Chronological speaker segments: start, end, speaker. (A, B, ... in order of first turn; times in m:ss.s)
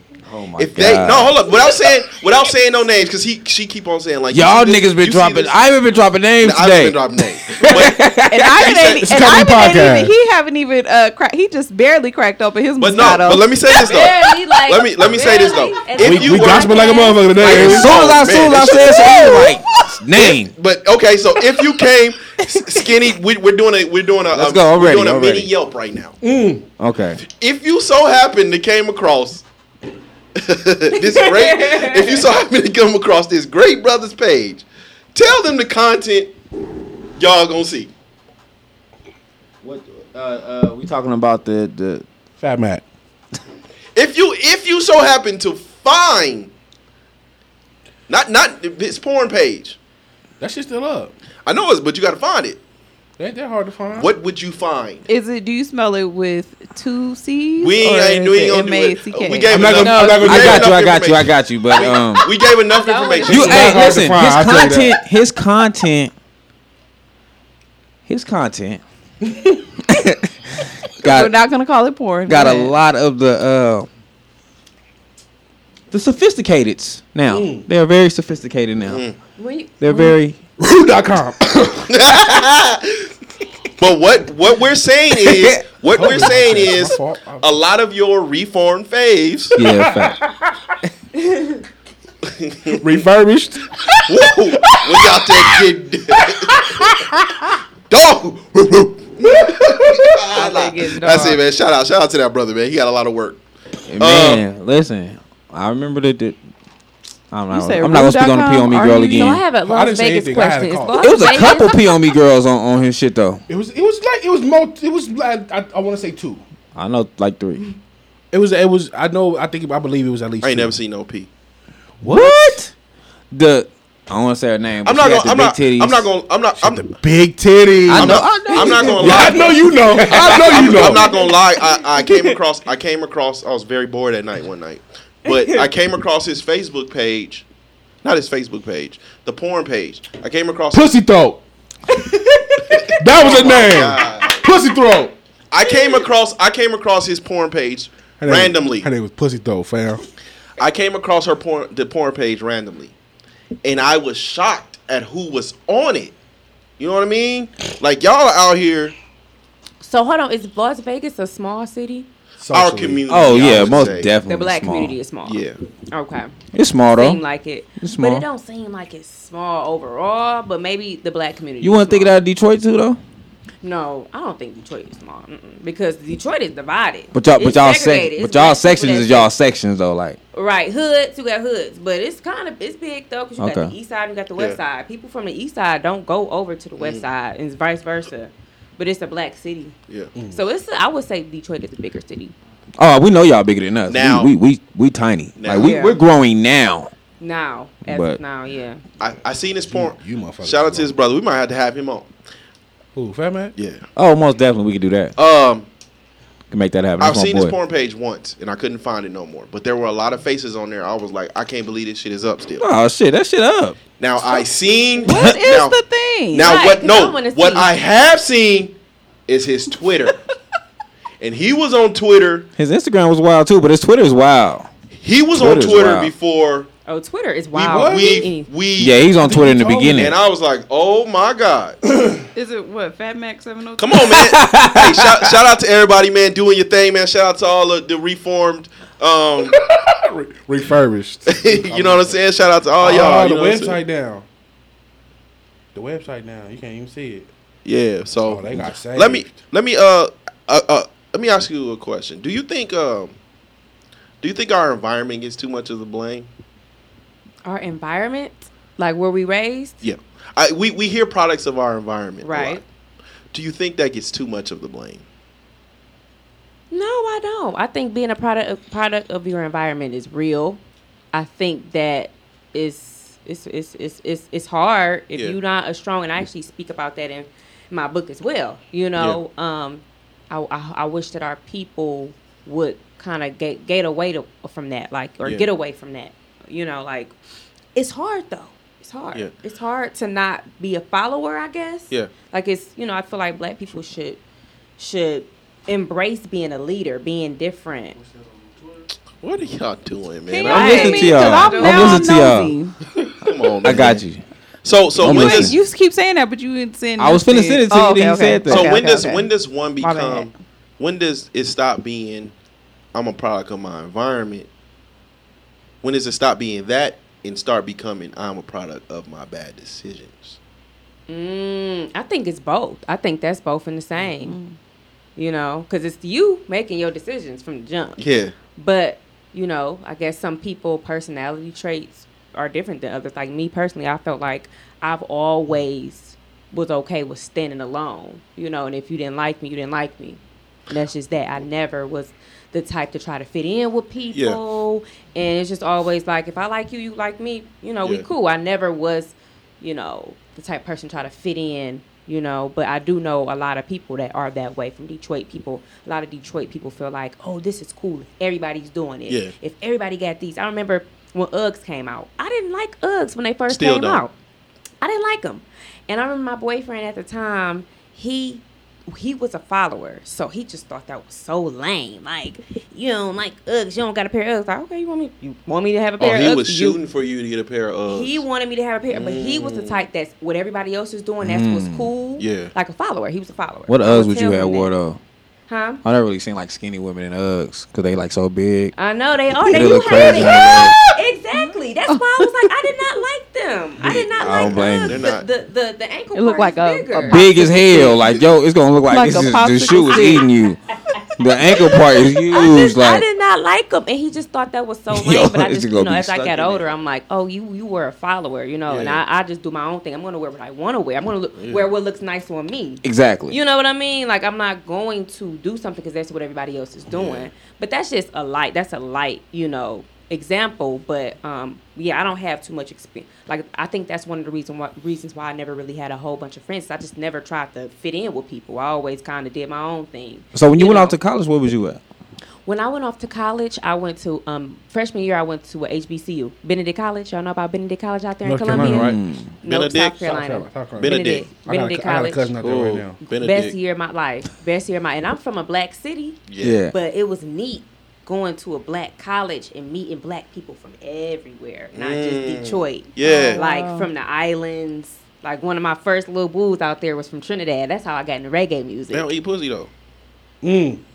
0:00.3-0:01.5 A
0:00.6-0:05.6 B
0:04.3-0:08.7 A
0:06.4-0:09.1 B
0:08.3-0:13.5 C
0:09.0-0:10.1 D
0:12.8-0:19.6 B
0:13.7-0:17.4 E
0:16.0-0:18.0 D
0:17.4-0:20.5 A
0:18.8-0:19.6 D
0:20.1-0:26.2 B
0:24.3-0:25.5 A
0:26.2-0:26.6 D
0:26.8-0:27.2 A
0:27.2-0:29.4 B
0:30.4-0:36.3 B
0:31.0-0:32.2 E
0:37.2-0:37.9 B
0:39.6-0:42.0 A
0:42.4-0:42.8 D
0:44.0-0:46.5 B
0:48.1-0:49.8 B
0:50.4-0:51.1 D
0:51.4-0:52.6 B
0:53.2-0:54.1 D
0:53.9-0:55.1 B
0:55.1-0:59.6 C
0:57.6-1:03.8 B
0:59.5-1:00.8 D
0:59.7-1:00.2 E
1:00.2-1:02.3 A
1:02.7-1:03.8 E
1:03.2-1:06.1 A
1:03.3-1:05.0 D
1:08.1-1:08.8 A
1:09.9-1:10.3 A
1:11.0-1:11.4 A
1:11.0-1:12.7 C
1:12.3-1:13.9 A
1:15.9-1:19.0 A
1:17.3-1:17.7 D
1:18.8-1:19.2 B
1:19.4-1:19.8 E
1:19.8-1:20.4 A
1:20.6-1:22.1 D
1:21.9-1:23.1 B
1:23.8-1:29.6 B
1:25.1-1:25.6 A
1:25.9-1:27.5 D
1:29.6-1:30.2 A
1:29.6-1:30.7 D
1:32.3-1:32.9 B
1:32.7-1:37.6 D
1:34.1-1:36.9 B
1:37.9-1:43.4 B
1:39.2-1:40.3 D
1:40.3-1:41.3 E
1:43.9-1:46.4 A
1:44.0-1:44.4 B
1:47.3-1:49.4 A
1:47.5-1:49.4 C
1:49.1-1:51.8 E
1:49.6-1:51.2 D
1:51.0-1:53.4 A
1:53.5-1:56.4 D
1:56.7-1:57.7 A
1:58.3-2:00.7 D
2:00.4-2:01.3 B
2:02.0-2:02.6 D
2:02.0-2:02.7 A
2:03.3-2:06.1 A
2:04.8-2:06.9 B
2:06.6-2:08.3 D
2:07.9-2:09.4 A
2:07.9-2:17.4 B
2:08.6-2:08.9 E
2:09.0-2:11.1 D
2:10.3-2:12.4 E
2:15.3-2:15.7 E
2:18.0-2:20.9 B
2:20.7-2:21.4 D
2:22.0-2:23.4 E
2:22.7-2:24.5 B
2:23.0-2:25.1 D
2:25.5-2:28.9 B
2:28.2-2:30.0 D
2:30.6-2:32.9 B
2:33.6-2:36.1 B
2:36.8-2:39.0 B
2:39.8-2:42.1 E
2:42.4-2:43.1 D
2:42.5-2:44.1 B
2:43.1-2:45.0 A
2:44.3-2:46.3 E
2:45.2-2:45.6 B
2:46.5-2:47.2 A
2:46.9-2:52.1 E
2:47.8-2:48.2 A
2:51.6-2:53.0 A
2:53.6-2:59.3 E
2:57.1-3:00.2 A
3:00.3-3:09.7 E
3:03.4-3:03.7 A
3:06.8-3:07.1 B
3:10.3-3:12.3 E
3:12.8-3:16.9 A
3:13.9-3:14.3 B
3:15.4-3:15.8 B
3:15.6-3:16.0 E
3:17.2-3:18.8 E
3:17.9-3:18.2 A
3:19.0-3:22.1 B
3:19.7-3:20.9 D
3:23.0-3:23.5 D
3:23.6-3:23.8 B
3:24.0-3:25.1 A
3:25.2-3:25.7 B
3:26.5-3:27.6 A
3:27.0-3:32.7 B
3:32.6-3:33.8 A
3:34.0-3:35.8 B
3:35.0-3:36.6 C
3:36.3-3:38.8 B
3:36.4-3:37.7 E
3:39.3-3:40.2 B
3:41.2-3:42.5 B
3:42.6-3:44.7 A
3:45.0-3:46.7 B
3:45.4-3:46.1 A
3:46.9-3:48.5 E
3:47.5-3:49.3 B
3:47.7-3:48.3 D
3:48.8-3:50.2 A
3:49.2-3:50.1 D
3:49.8-3:51.8 B
3:52.4-3:54.1 C
3:53.8-3:59.6 B
3:54.1-3:55.3 A
3:59.4-4:02.2 D
4:01.3-4:03.8 B
4:02.8-4:04.3 D
4:05.7-4:07.3 D
4:07.6-4:13.2 B
4:08.2-4:09.4 D
4:14.2-4:16.3 B
4:17.4-4:19.8 E
4:19.8-4:22.6 B
4:22.2-4:22.6 E
4:23.3-4:25.0 B
4:26.7-4:30.6 E
4:31.1-4:47.1 E
4:39.0-4:39.2 B
4:47.7-4:54.2 E
4:54.8-4:58.0 E
4:59.2-5:01.1 B
5:00.3-5:02.7 C
5:00.3-5:02.0 E
5:00.5-5:02.6 A
5:03.2-5:04.0 B
5:03.6-5:04.2 A
5:04.6-5:05.6 B
5:05.0-5:05.6 A
5:05.0-5:09.3 C
5:07.0-5:08.7 A
5:08.5-5:12.3 B
5:09.8-5:10.3 C
5:12.9-5:14.5 B
5:15.8-5:20.4 B
5:21.1-5:24.4 E
5:24.2-5:24.6 C
5:25.2-5:28.0 E
5:28.0-5:28.4 B
5:28.6-6:04.1 E
5:44.1-5:44.4 B
6:03.5-6:04.0 B
6:04.8-6:16.8 E
6:16.0-6:18.2 B
6:17.9-6:24.7 E
6:18.9-6:19.8 B
6:21.2-6:21.9 A
6:22.2-6:22.5 B
6:23.7-6:25.0 A
6:25.5-6:25.8 E
6:25.8-6:28.7 A
6:28.8-6:37.3 E
6:29.4-6:30.8 A
6:29.7-6:30.4 C
6:31.9-6:32.5 C
6:33.8-6:35.3 B
6:34.2-6:35.1 A
6:36.1-6:38.0 C
6:37.1-6:40.6 A
6:38.9-6:40.3 C
6:41.2-6:43.0 A
6:41.5-7:11.0 E
6:44.9-6:46.6 A
6:48.7-6:49.0 B
6:51.4-6:51.7 B
6:52.8-6:53.4 A
6:56.9-6:57.3 B
7:10.3-7:11.8 A
7:12.4-7:22.3 E
7:18.2-7:19.0 D
7:18.6-7:19.3 A
7:19.4-7:20.1 B
7:20.0-7:23.0 D
7:20.8-7:21.3 B
7:22.4-7:23.6 B
7:23.0-7:26.2 E
7:26.3-7:26.6 B
7:26.4-7:26.7 A
7:26.7-7:39.1 E
7:31.7-7:33.4 B
7:33.0-7:33.9 C
7:38.9-7:39.7 B
7:40.4-7:40.8 D